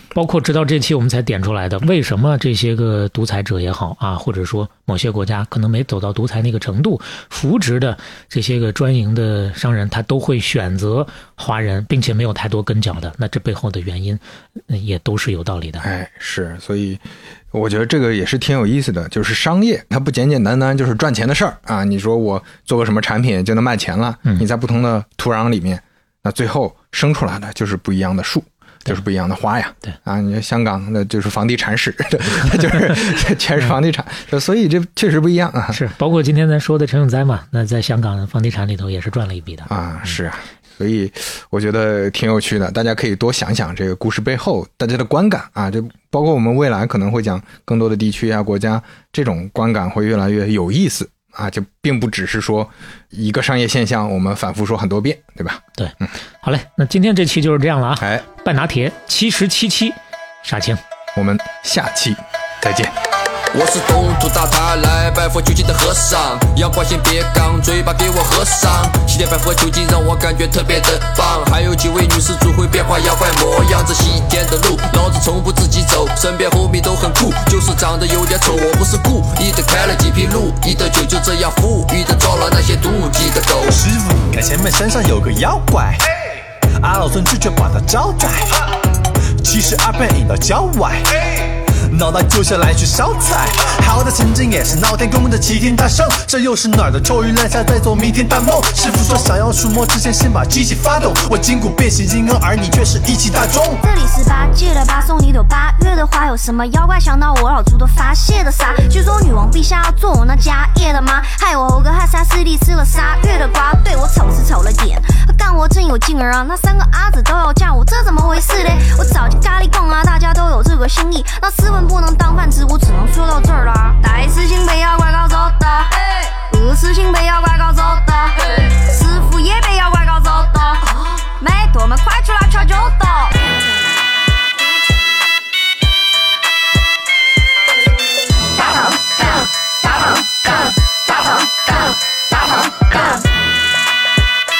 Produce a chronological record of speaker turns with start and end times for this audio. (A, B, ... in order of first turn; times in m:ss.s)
0:00.1-0:15.8 A
0:15.8-0:35.8 B
0:35.7-0:39.7 A
0:39.7-0:55.6 B
0:55.8-1:00.8 A
1:01.1-1:02.9 B
1:03.5-1:23.8 C
1:23.6-1:26.0 D
1:26.8-1:28.7 D
1:29.4-1:43.8 D
1:43.8-2:13.6 E
2:18.9-2:19.4 E